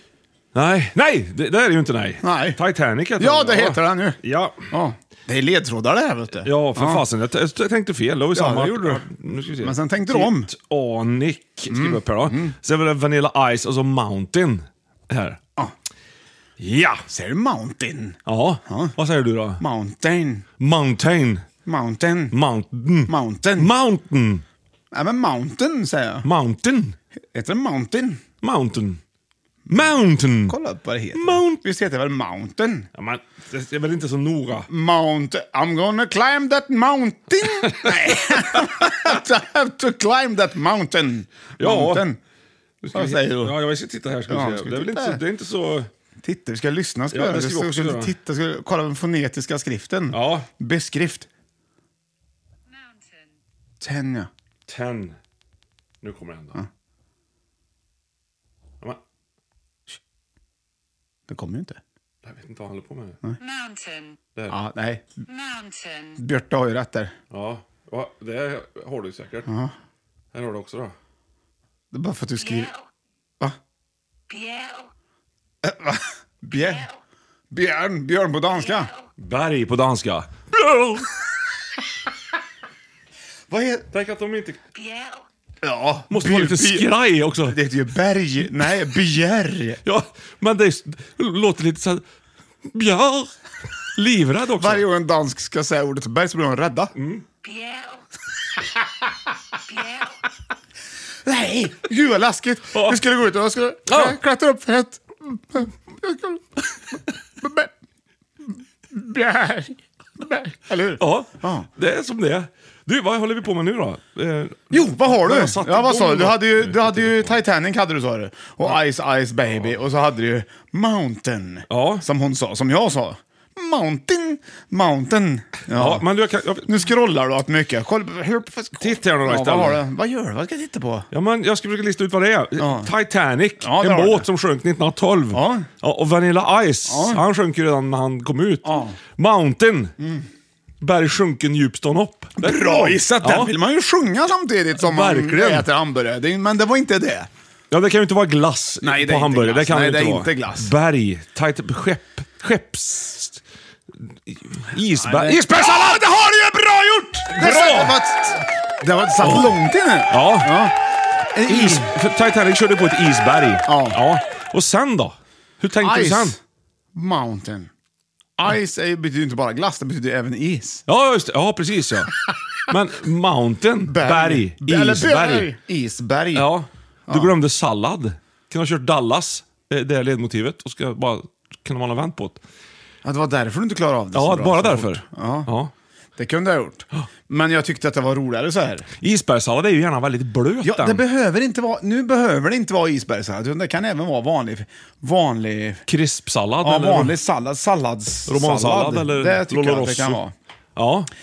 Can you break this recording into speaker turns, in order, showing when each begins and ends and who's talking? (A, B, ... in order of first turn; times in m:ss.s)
0:00.5-0:04.7 A
0:02.2-0:02.6 B
0:03.2-0:07.0 B
0:06.4-0:15.4 A
0:08.3-0:09.0 B
0:09.6-0:10.5 B
0:11.7-0:12.5 B
0:16.6-0:17.0 A
0:17.1-0:18.9 B
0:18.2-0:19.6 A
0:19.6-0:20.4 B
0:20.6-0:21.4 A
0:21.6-0:22.4 B
0:22.3-0:24.4 A
0:23.1-0:23.7 B
0:24.9-0:26.2 B
0:26.2-0:27.0 A
0:27.3-0:28.2 B
0:28.4-0:29.0 A
0:29.6-0:29.9 B
0:29.7-0:30.6 A
0:30.5-0:32.9 B
0:31.1-0:31.6 A
0:33.0-0:34.7 A
0:34.7-0:42.2 B
0:37.7-0:37.9 A
0:41.6-0:42.0 A
0:42.8-0:45.9 A
0:42.9-0:43.5 B
0:44.3-0:45.2 B
0:46.2-0:51.3 B
0:47.1-0:48.1 A
0:50.1-0:50.5 A
0:53.8-0:54.3 B
0:54.7-0:55.2 A
0:56.0-0:56.6 A
1:01.3-1:01.8 B
1:02.2-1:03.2 A
1:04.5-1:05.0 B
1:06.1-1:07.1 B
1:07.3-1:09.5 A
1:09.5-1:09.7 B
1:10.3-1:10.9 A
1:11.9-1:12.7 B
1:15.6-1:16.9 B
1:17.5-1:18.9 B
1:19.2-1:21.1 A
1:23.5-1:23.8 B
1:23.9-1:24.6 A
1:25.6-1:26.9 B
1:26.1-1:27.6 A
1:27.4-1:29.8 B
1:29.8-1:32.0 A
1:32.7-1:33.3 A
1:33.9-1:34.8 A
1:34.6-1:36.9 B
1:37.0-1:37.2 A
1:41.2-1:46.4 B
1:42.7-1:43.0 A
1:43.9-1:44.2 A
1:47.4-1:47.7 B
1:48.9-1:51.7 B
1:51.0-1:57.3 A
1:54.7-2:06.0 B
2:01.7-2:02.0 A
2:05.7-2:06.7 A
2:06.7-2:11.1 B
2:08.8-2:09.8 A
2:11.1-2:19.9 A
2:12.6-2:12.9 B
2:13.6-2:14.3 B
2:15.3-2:15.7 B
2:16.9-2:17.2 B
2:18.6-2:19.0 B
2:20.8-2:23.5 A
2:22.4-2:27.3 B
2:24.8-2:25.7 A
2:27.7-2:33.4 A
2:28.8-2:30.7 B
2:34.2-2:36.0 A
2:35.0-2:40.7 B
2:37.3-2:38.0 A
2:39.2-2:39.5 A
2:40.1-2:40.6 A
2:41.3-2:41.9 B
2:41.5-2:46.4 A
2:43.6-2:44.0 B
2:45.8-2:46.4 B
2:46.9-2:47.7 B
2:48.4-2:50.8 B
2:50.9-2:52.1 A
2:52.7-2:55.5 A
2:53.8-2:56.5 B
2:56.3-3:02.4 A
2:57.1-2:57.3 B
3:03.0-3:05.5 B
3:04.1-3:05.7 A
3:06.2-3:08.9 B
3:09.0-3:11.0 A
3:10.6-3:15.8 B
3:15.9-3:17.2 A
3:16.6-3:20.3 B
3:18.3-3:20.2 A
3:20.8-3:21.1 A